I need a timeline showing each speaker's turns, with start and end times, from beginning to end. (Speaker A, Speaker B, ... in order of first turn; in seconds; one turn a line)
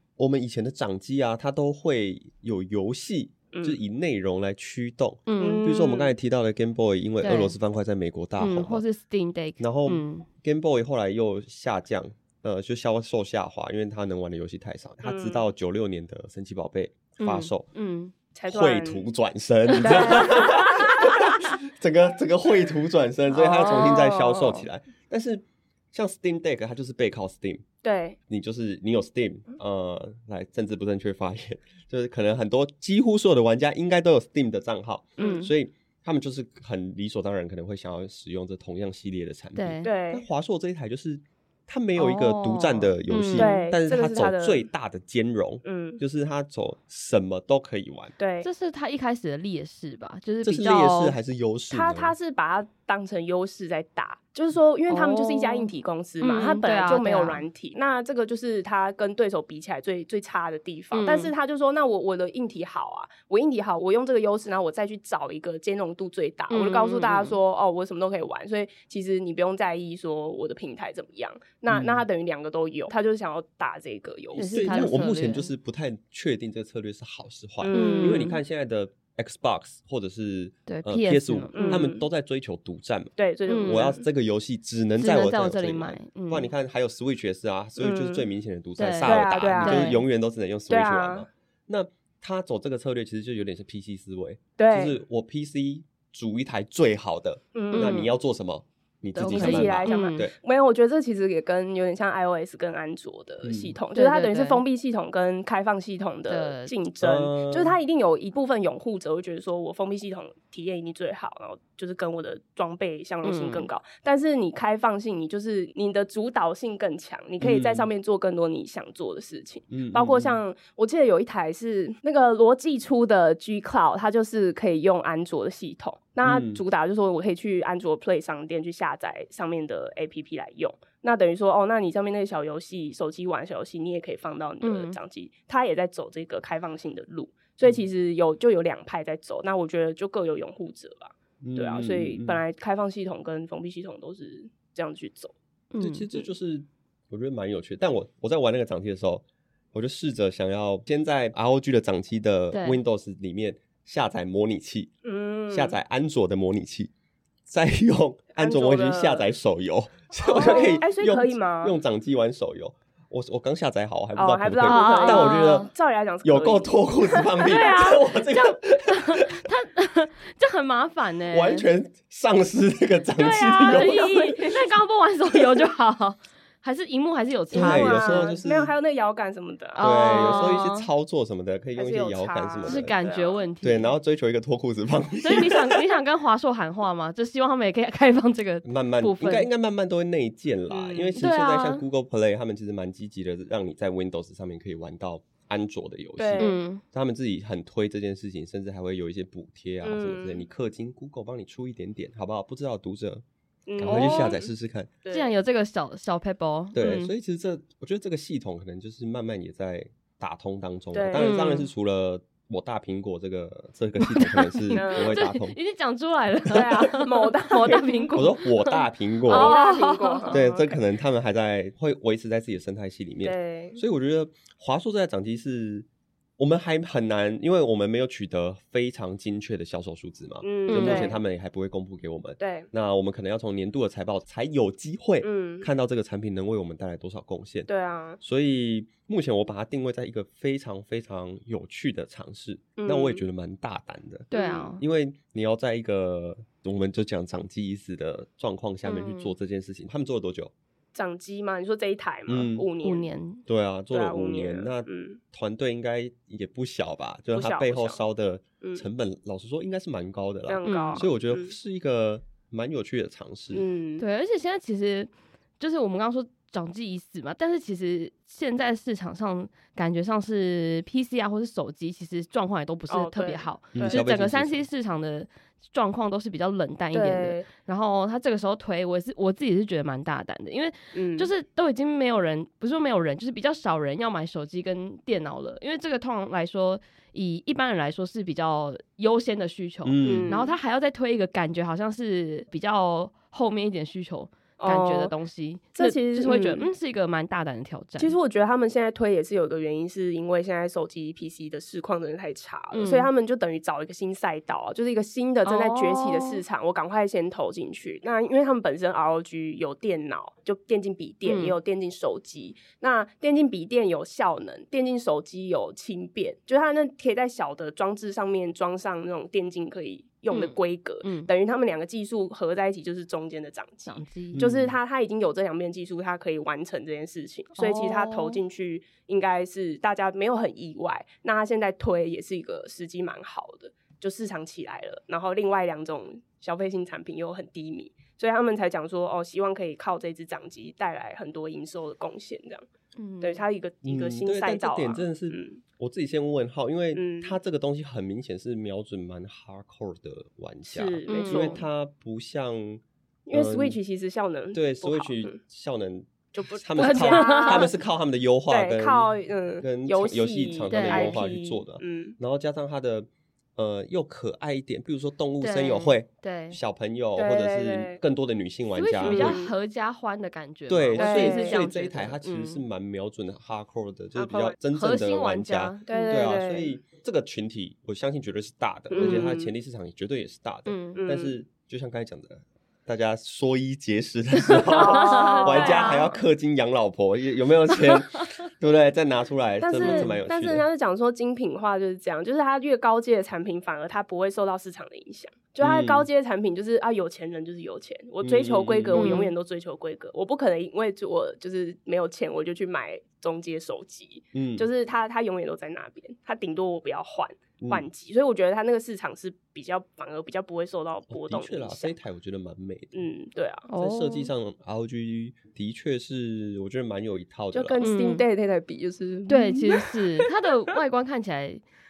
Speaker A: 0.2-8.8
Speaker B: 3.5-3.8
Speaker C: 5.3-5.8
Speaker B: 5.4-6.2
Speaker C: 7.2-7.6
Speaker C: 8.4-10.3
Speaker A: 9.6-17.7
Speaker B: 15.0-15.5
Speaker C: 17.2-18.1
Speaker B: 18.3-19.1
Speaker A: 18.5-27.6
Speaker C: 19.8-20.1
Speaker B: 19.8-20.8
Speaker B: 23.4-24.6
Speaker C: 23.5-23.9
Speaker B: 27.8-28.2
Speaker A: 28.3-48.1
Speaker B: 35.2-35.5
Speaker C: 35.2-35.5
Speaker C: 39.6-39.9
Speaker B: 39.8-40.2
Speaker C: 42.0-43.6
Speaker B: 43.4-44.7
Speaker B: 45.6-46.0
Speaker B: 48.2-48.5
Speaker C: 48.4-51.1
Speaker A: 50.4-52.1
Speaker B: 51.7-75.0
Speaker C: 54.9-55.7
Speaker C: 56.2-57.4
Speaker C: 60.9-61.3
Speaker C: 66.5-67.4
Speaker A: 71.7-72.0
Speaker C: 74.4-75.5
Speaker A: 74.4-83.1
Speaker B: 77.6-78.3
Speaker C: 77.7-78.4
Speaker C: 80.7-81.9
Speaker B: 81.5-82.0
Speaker B: 83.2-84.0
Speaker C: 83.5-83.9
Speaker A: 83.6-100.3
Speaker C: 85.0-86.5
Speaker B: 87.8-88.3
Speaker C: 88.8-90.0
Speaker B: 89.0-90.0
Speaker B: 90.7-91.3
Speaker B: 94.6-95.0
Speaker B: 97.5-98.1
Speaker C: 97.7-98.1
Speaker C: 99.2-100.3
Speaker B: 99.2-145.3
Speaker A: 103.4-103.8
Speaker C: 103.9-104.6
Speaker C: 106.3-106.7
Speaker A: 107.0-107.8
Speaker C: 113.2-113.7
Speaker A: 117.4-117.9
Speaker A: 119.7-120.4
Speaker A: 126.2-126.6
Speaker C: 134.6-135.0
Speaker A: 141.4-142.4
Speaker C: 145.7-146.1
Speaker A: 145.8-154.9
Speaker C: 152.5-152.8
Speaker B: 155.0-155.8
Speaker A: 155.5-156.9
Speaker A: 157.5-165.7
Speaker B: 158.4-159.3
Speaker B: 160.2-161.8
Speaker B: 164.2-167.9
Speaker C: 164.7-165.7
Speaker A: 166.2-169.4
Speaker C: 167.4-171.7
Speaker A: 171.3-174.2
Speaker B: 173.2-174.7
Speaker C: 173.2-178.3
Speaker B: 177.5-180.6
Speaker A: 177.5-178.7
Speaker C: 179.8-180.9
Speaker A: 179.8-182.9
Speaker B: 181.8-183.4
Speaker C: 182.7-183.9
Speaker A: 183.6-185.8
Speaker C: 185.2-189.5
Speaker A: 188.7-203.2
Speaker B: 190.7-191.2
Speaker C: 191.2-191.8
Speaker B: 196.2-196.6
Speaker C: 196.4-196.8
Speaker B: 199.8-200.4
Speaker B: 203.7-204.5
Speaker A: 203.8-204.9
Speaker C: 203.9-204.4
Speaker B: 205.0-205.3
Speaker C: 205.1-207.1
Speaker A: 206.7-215.6
Speaker B: 210.9-211.4
Speaker C: 211.2-211.7
Speaker C: 214.0-220.4
Speaker B: 214.7-215.2
Speaker B: 216.5-218.1
Speaker A: 218.1-219.6
Speaker B: 219.3-220.8
Speaker A: 220.3-225.9
Speaker B: 223.2-223.8
Speaker A: 226.4-237.7
Speaker B: 230.4-231.2
Speaker C: 230.7-231.2
Speaker B: 232.4-232.7
Speaker B: 235.2-235.7
Speaker B: 237.7-238.2
Speaker A: 238.2-250.5
Speaker B: 242.8-243.2
Speaker C: 244.3-244.8
Speaker B: 244.3-244.7
Speaker C: 248.8-249.3
Speaker B: 250.9-253.1
Speaker A: 252.3-252.7
Speaker C: 252.8-253.4
Speaker A: 253.5-263.6
Speaker B: 253.9-255.2
Speaker B: 257.3-258.0
Speaker B: 260.5-261.5
Speaker C: 260.7-261.1
Speaker B: 263.5-264.0
Speaker C: 264.0-298.2
Speaker B: 272.9-274.0
Speaker A: 273.8-274.7
Speaker B: 276.9-277.5
Speaker B: 280.9-281.3
Speaker A: 289.9-290.4
Speaker B: 290.0-290.6
Speaker B: 294.6-295.1
Speaker B: 295.8-296.7
Speaker B: 298.0-342.6
Speaker C: 302.7-303.1
Speaker C: 305.4-306.4
Speaker C: 311.2-311.6
Speaker C: 320.3-321.3
Speaker C: 323.9-324.4
Speaker A: 324.3-324.8
Speaker C: 327.6-328.4
Speaker C: 343.0-343.4
Speaker B: 343.2-345.6
Speaker A: 343.8-352.8
Speaker B: 346.9-347.4
Speaker B: 350.7-351.6
Speaker C: 351.1-351.6
Speaker B: 353.3-355.4
Speaker A: 353.3-353.8
Speaker A: 354.5-369.4
Speaker B: 356.3-357.7
Speaker C: 356.8-357.7
Speaker B: 358.5-362.2
Speaker C: 360.7-361.2
Speaker C: 365.4-366.6
Speaker B: 367.2-368.0
Speaker C: 368.8-372.6
Speaker B: 369.0-369.5
Speaker A: 370.7-390.6
Speaker B: 371.0-371.6
Speaker B: 374.2-374.6
Speaker C: 374.7-376.3
Speaker B: 375.9-376.7
Speaker B: 378.9-379.5
Speaker C: 379.0-379.3
Speaker C: 380.7-381.1
Speaker B: 380.9-381.4
Speaker C: 384.4-386.1
Speaker B: 384.7-386.2
Speaker C: 387.7-388.3
Speaker B: 389.6-412.0
Speaker C: 389.8-390.1
Speaker A: 395.6-396.1
Speaker A: 398.2-399.2
Speaker C: 398.9-399.3
Speaker A: 404.3-404.7
Speaker A: 407.6-407.9
Speaker A: 411.1-413.0
Speaker B: 412.9-413.7
Speaker C: 413.7-414.3
Speaker A: 413.8-417.8
Speaker B: 417.5-420.7
Speaker C: 417.8-418.2
Speaker C: 419.3-421.6